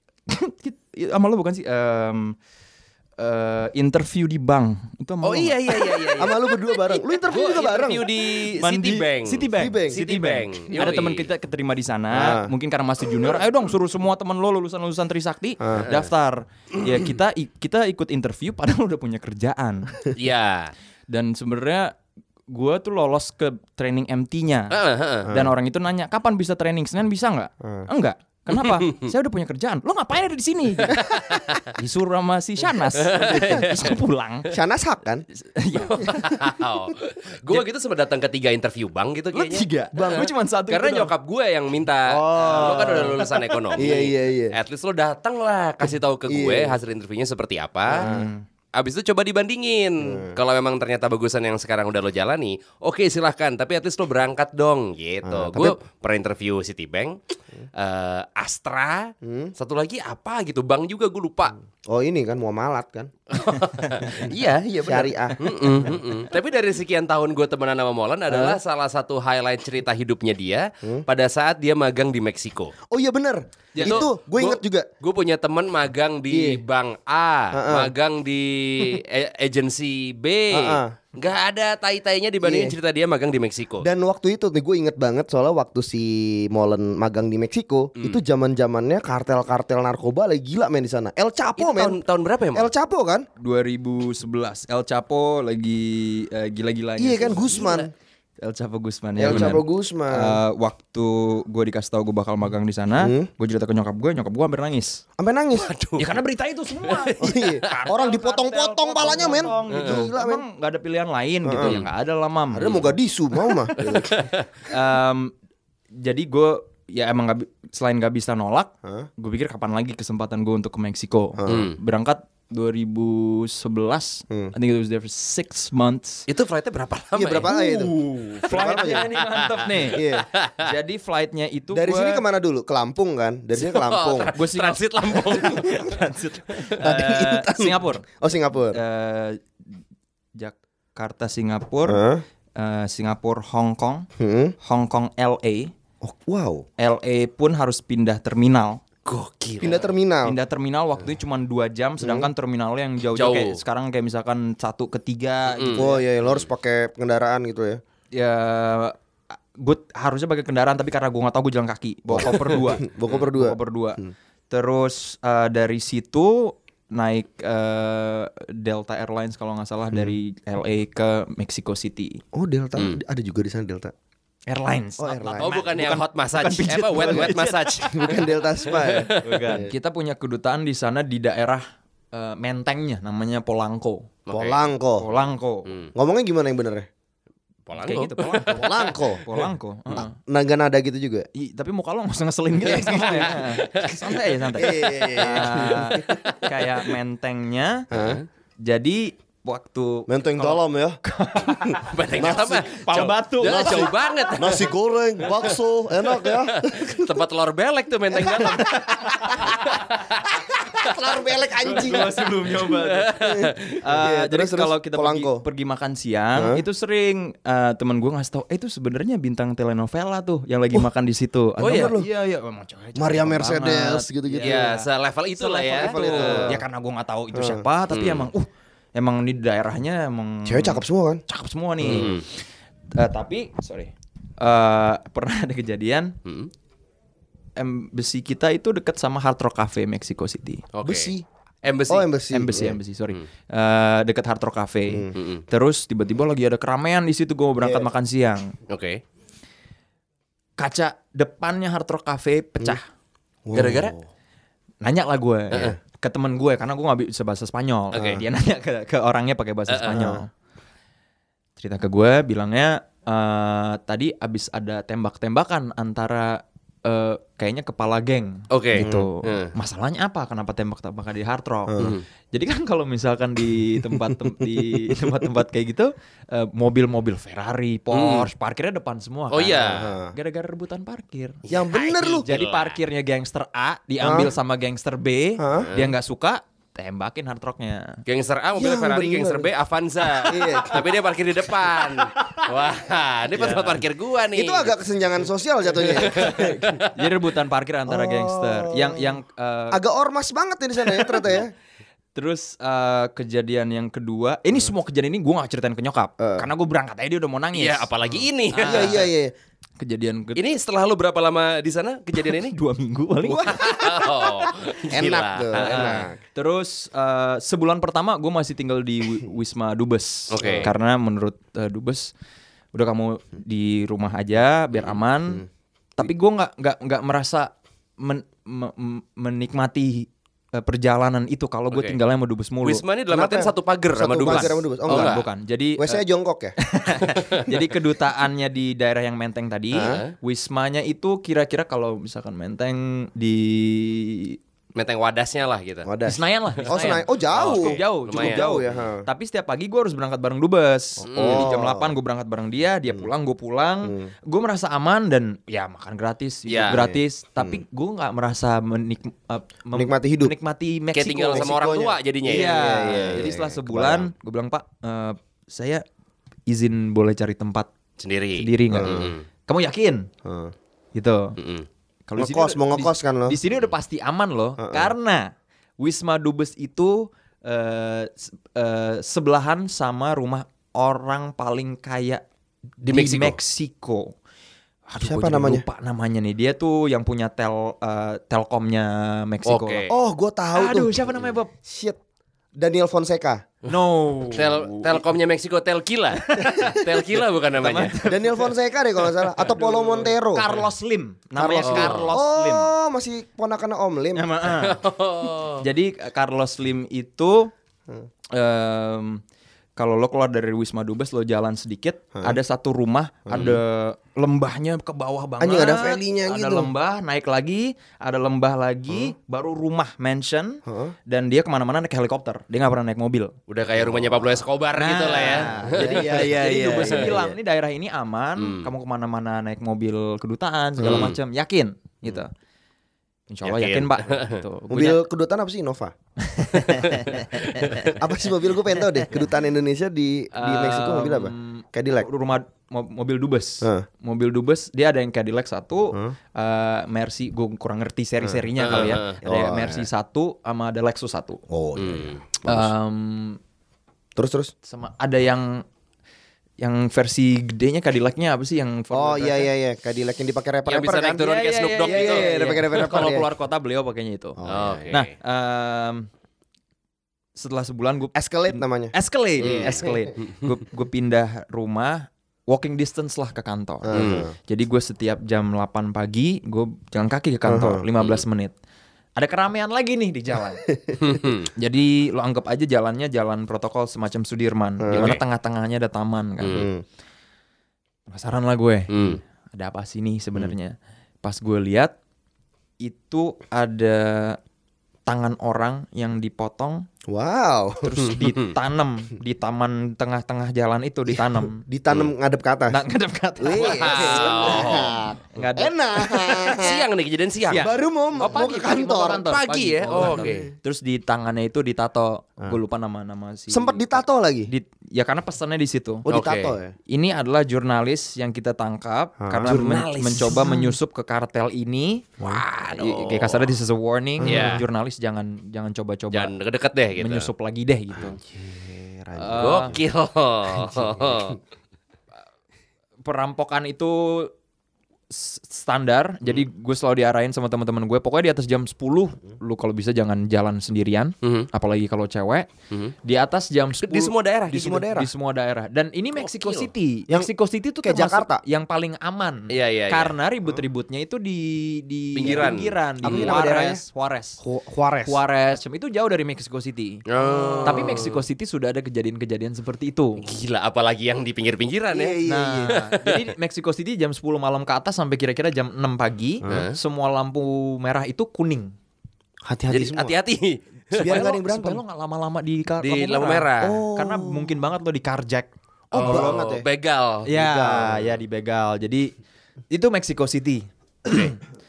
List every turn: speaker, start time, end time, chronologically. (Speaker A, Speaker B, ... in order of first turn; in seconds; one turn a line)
Speaker A: 0.3-2.4
Speaker A: 3.2-6.3
Speaker B: 5.2-11.3
Speaker C: 6.2-8.1
Speaker A: 7.3-20.0
Speaker C: 9.6-10.0
Speaker C: 12.1-12.5
Speaker C: 15.6-15.9
Speaker B: 15.7-16.0
Speaker B: 20.1-20.7
Speaker A: 21.1-22.0
Speaker A: 22.5-31.0
Speaker B: 24.7-25.3
Speaker B: 28.6-29.1
Speaker B: 30.9-31.7
Speaker A: 31.7-34.5
Speaker B: 32.9-34.0
Speaker C: 34.5-35.2
Speaker A: 35.3-36.4
Speaker B: 35.8-48.1
Speaker A: 39.3-41.1
Speaker C: 39.9-40.3
Speaker C: 42.1-43.2
Speaker A: 42.4-43.8
Speaker C: 43.8-44.5
Speaker C: 46.3-46.8
Speaker C: 47.9-48.3
Speaker A: 48.0-48.4
Speaker B: 48.7-57.2
Speaker C: 50.0-50.4
Speaker C: 55.2-55.8
Speaker B: 57.8-61.5
Speaker C: 59.2-59.5
Speaker C: 61.9-63.1
Speaker B: 63.3-72.8
Speaker C: 64.0-64.3
Speaker C: 64.8-65.9
Speaker C: 68.3-68.6
Speaker C: 72.9-74.9
Speaker A: 73.7-74.0
Speaker B: 73.8-83.9
Speaker C: 76.3-76.6
Speaker C: 77.5-77.9
Speaker C: 80.5-81.0
Speaker C: 82.4-82.7
Speaker C: 83.8-92.0
Speaker B: 91.6-92.7
Speaker C: 92.5-93.3
Speaker A: 93.4-97.8
Speaker C: 97.0-97.9
Speaker B: 97.3-97.8
Speaker A: 98.4-105.0
Speaker C: 99.2-100.4
Speaker B: 99.2-99.5
Speaker C: 103.0-103.3
Speaker C: 105.2-105.7
Speaker B: 105.5-106.1
Speaker A: 106.0-112.8
Speaker B: 106.8-107.8
Speaker C: 107.2-110.4
Speaker B: 109.7-110.0
Speaker C: 111.4-111.8
Speaker B: 111.6-111.8
Speaker C: 112.5-114.2
Speaker B: 112.7-112.9
Speaker A: 113.7-114.0
Speaker B: 113.8-114.5
Speaker A: 114.7-115.3
Speaker A: 115.9-126.3
Speaker C: 121.4-121.7
Speaker B: 121.5-121.8
Speaker B: 126.3-127.5
Speaker C: 127.1-129.1
Speaker A: 127.4-130.0
Speaker B: 129.2-130.6
Speaker C: 129.9-130.3
Speaker A: 130.6-132.2
Speaker C: 131.7-134.3
Speaker B: 133.6-136.0
Speaker A: 134.3-138.0
Speaker C: 136.8-138.8
Speaker A: 138.7-139.4
Speaker A: 140.3-142.0
Speaker C: 141.8-142.2
Speaker A: 142.6-144.1
Speaker C: 144.2-144.5
Speaker A: 144.6-145.7
Speaker C: 146.0-146.7
Speaker A: 146.8-148.8
Speaker B: 149.0-149.9
Speaker C: 149.6-150.4
Speaker A: 150.2-156.0
Speaker C: 152.0-152.3
Speaker B: 153.1-153.6
Speaker B: 155.5-155.9
Speaker C: 155.7-157.8
Speaker A: 158.1-158.9
Speaker A: 159.6-172.2
Speaker C: 162.1-164.1
Speaker C: 172.3-173.9
Speaker A: 174.5-178.1
Speaker C: 175.0-175.6
Speaker B: 175.4-179.5
Speaker C: 177.0-179.7
Speaker A: 179.0-184.1
Speaker B: 184.3-185.9
Speaker C: 184.3-185.1
Speaker A: 185.0-185.7
Speaker C: 185.9-186.9
Speaker B: 187.7-189.0
Speaker A: 187.8-190.2
Speaker C: 188.5-189.4
Speaker C: 189.9-191.3
Speaker A: 191.3-197.9
Speaker C: 192.7-193.2
Speaker B: 192.7-194.0
Speaker C: 194.5-196.2
Speaker B: 196.1-196.4
Speaker C: 197.9-198.2
Speaker B: 197.9-198.2
Speaker A: 198.6-204.3
Speaker C: 200.1-201.0
Speaker B: 201.8-204.7
Speaker C: 202.2-202.7
Speaker C: 203.4-207.1
Speaker B: 205.3-205.6
Speaker B: 206.1-210.3
Speaker C: 208.1-209.5
Speaker A: 209.2-209.6
Speaker C: 210.4-212.1
Speaker B: 210.9-211.2
Speaker A: 211.6-213.1
Speaker B: 211.8-212.0
Speaker B: 212.6-213.8
Speaker C: 213.2-215.4
Speaker A: 213.8-232.2
Speaker C: 216.3-216.6
Speaker C: 221.6-222.1
Speaker B: 221.6-221.9
Speaker C: 222.9-224.6
Speaker B: 224.4-226.6
Speaker C: 225.7-226.6
Speaker C: 227.3-227.7
Speaker B: 227.9-228.3
Speaker C: 230.4-231.2
Speaker C: 231.8-232.1
Speaker B: 231.8-232.2
Speaker A: 232.9-236.2
Speaker B: 236.2-236.5
Speaker A: 237.6-240.7
Speaker B: 240.7-241.1
Speaker C: 240.8-241.2
Speaker B: 241.6-242.1
Speaker C: 241.9-242.8
Speaker A: 242.3-248.5
Speaker B: 245.1-245.4
Speaker C: 247.6-247.9
Speaker B: 248.7-249.0
Speaker A: 250.6-252.8
Speaker C: 253.4-254.0
Speaker B: 253.5-253.9
Speaker A: 254.8-260.3
Speaker B: 257.9-258.2
Speaker B: 259.7-260.1
Speaker A: 261.6-281.4
Speaker B: 268.5-269.5
Speaker C: 268.8-269.1
Speaker C: 271.7-271.9
Speaker C: 274.4-275.1
Speaker B: 277.9-278.3
Speaker B: 279.3-279.9
Speaker C: 279.6-280.1
Speaker C: 281.5-282.2
Speaker B: 281.5-282.8
Speaker A: 282.2-288.0
Speaker C: 284.0-284.3
Speaker C: 285.4-285.7
Speaker B: 285.6-285.9
Speaker B: 288.1-294.8
Speaker C: 288.6-289.5
Speaker C: 290.2-290.9
Speaker A: 292.1-292.5
Speaker A: 293.4-293.8
Speaker C: 294.3-296.8
Speaker B: 295.8-296.8
Speaker A: 296.1-299.8
Speaker C: 297.9-299.2
Speaker C: 299.7-301.5
Speaker A: 302.1-307.9
Speaker C: 306.2-306.5
Speaker B: 307.5-309.1
Speaker A: 308.5-309.1
Speaker C: 308.6-309.3
Speaker A: 309.8-310.4
Speaker B: 310.3-312.6
Speaker A: 312.1-313.9
Speaker C: 313.3-314.2
Speaker B: 313.3-316.0
Speaker C: 314.9-316.2
Speaker A: 315.5-322.1
Speaker B: 320.3-320.7
Speaker C: 320.4-320.7
Speaker A: 322.7-325.4
Speaker A: 326.0-332.8
Speaker B: 331.7-332.0
Speaker B: 332.6-335.2
Speaker C: 333.1-335.2
Speaker A: 334.2-336.0
Speaker C: 335.8-336.5
Speaker A: 336.6-344.4
Speaker C: 339.7-340.0
Speaker B: 339.7-340.1
Speaker B: 344.7-345.9
Speaker C: 345.8-349.0
Speaker A: 346.0-361.5
Speaker B: 346.6-348.8
Speaker C: 351.0-351.9
Speaker B: 351.1-351.5
Speaker C: 353.8-354.1
Speaker B: 356.5-356.8
Speaker C: 356.7-357.6
Speaker C: 359.7-360.3
Speaker B: 360.9-363.1
Speaker C: 361.3-364.1
Speaker A: 362.2-365.8
Speaker A: 366.5-367.7
Speaker B: 368.0-369.2
Speaker A: 368.4-370.1
Speaker C: 368.7-369.1
Speaker C: 370.2-370.5
Speaker A: 370.9-371.4
Speaker B: 371.4-371.7
Speaker A: 372.1-382.2
Speaker C: 372.2-373.4
Speaker C: 374.6-374.9
Speaker A: 382.8-384.1
Speaker B: 382.8-383.4
Speaker A: 384.9-389.8
Speaker C: 385.0-385.6
Speaker B: 389.4-389.9
Speaker C: 389.9-392.0
Speaker A: 390.5-391.5
Speaker C: 392.6-393.4
Speaker A: 393.7-395.0
Speaker B: 394.3-398.0
Speaker A: 396.2-396.8
Speaker A: 397.6-398.5
Speaker C: 398.0-400.5
Speaker A: 399.6-402.7
Speaker C: 401.4-404.3
Speaker B: 401.6-402.1
Speaker A: 404.1-404.8
Speaker B: 404.5-405.6
Speaker A: 405.6-407.5
Speaker A: 408.3-409.2
Speaker A: 409.8-423.4
Speaker C: 413.2-413.6
Speaker C: 415.4-416.7
Speaker C: 420.6-420.9
Speaker B: 423.5-427.1
Speaker C: 423.8-424.4
Speaker A: 424.8-432.3
Speaker C: 425.1-427.4
Speaker B: 428.4-428.7
Speaker B: 430.8-431.2
Speaker C: 430.8-431.1
Speaker A: 433.3-435.0
Speaker B: 433.4-434.4
Speaker C: 434.7-435.9
Speaker A: 436.2-437.9
Speaker B: 437.5-437.9
Speaker C: 437.9-442.1
Speaker A: 440.3-451.4
Speaker C: 443.6-443.9
Speaker C: 448.2-449.9
Speaker B: 448.6-449.2
Speaker C: 451.5-452.7
Speaker B: 451.8-452.2
Speaker A: 452.4-453.4
Speaker C: 454.1-454.5
Speaker A: 454.6-455.6
Speaker A: 456.6-459.5
Speaker C: 458.9-461.3
Speaker B: 460.6-462.3
Speaker A: 461.2-466.1
Speaker C: 461.8-463.3
Speaker C: 464.4-464.9
Speaker B: 464.4-465.1
Speaker A: 467.4-478.5
Speaker C: 468.1-469.9
Speaker B: 469.4-470.4
Speaker C: 473.8-474.3
Speaker B: 473.9-474.3
Speaker C: 477.4-477.8
Speaker A: 479.2-480.7
Speaker B: 481.0-481.5
Speaker A: 481.6-486.7
Speaker C: 484.8-485.2
Speaker B: 484.9-485.2
Speaker B: 486.4-486.7
Speaker C: 486.5-486.8
Speaker A: 488.1-489.0
Speaker B: 488.9-489.2
Speaker A: 489.5-491.9
Speaker A: 492.8-494.4
Speaker A: 495.1-496.9
Speaker C: 497.1-498.0
Speaker A: 497.8-501.6
Speaker B: 498.1-498.5
Speaker C: 501.1-502.8
Speaker A: 502.7-504.8
Speaker C: 503.4-506.9
Speaker B: 503.5-505.0
Speaker A: 505.3-506.4
Speaker B: 506.4-510.5
Speaker A: 507.5-516.0
Speaker C: 507.5-509.3
Speaker C: 509.9-510.5
Speaker C: 513.5-514.5
Speaker C: 516.0-516.7
Speaker B: 516.1-516.5
Speaker A: 516.9-526.3
Speaker C: 519.2-520.7
Speaker B: 519.4-520.6
Speaker B: 522.2-523.5
Speaker C: 524.2-524.6
Speaker B: 524.2-524.6
Speaker B: 526.1-527.3
Speaker A: 527.0-528.2
Speaker C: 527.9-529.8
Speaker A: 529.1-529.8
Speaker B: 529.4-531.4
Speaker C: 530.7-531.2
Speaker A: 533.0-534.3
Speaker A: 535.1-542.5
Speaker B: 541.2-541.5
Speaker A: 543.0-554.4
Speaker B: 543.8-544.8
Speaker C: 544.5-545.1
Speaker B: 546.2-546.7
Speaker C: 547.8-548.4
Speaker B: 549.5-550.1
Speaker B: 552.1-553.4
Speaker C: 553.0-553.8
Speaker C: 554.4-555.2
Speaker A: 555.0-557.0
Speaker B: 557.1-558.2
Speaker C: 557.2-558.0
Speaker A: 557.6-560.2
Speaker B: 560.2-563.3
Speaker C: 561.9-562.8
Speaker A: 562.2-568.7
Speaker B: 566.5-566.8
Speaker C: 569.5-570.1
Speaker B: 569.7-571.2
Speaker C: 570.9-571.8
Speaker A: 571.0-576.4
Speaker B: 572.8-573.8
Speaker C: 573.6-574.5
Speaker B: 575.9-577.3
Speaker C: 575.9-576.6
Speaker A: 577.2-579.1
Speaker C: 577.3-578.1
Speaker A: 579.7-581.4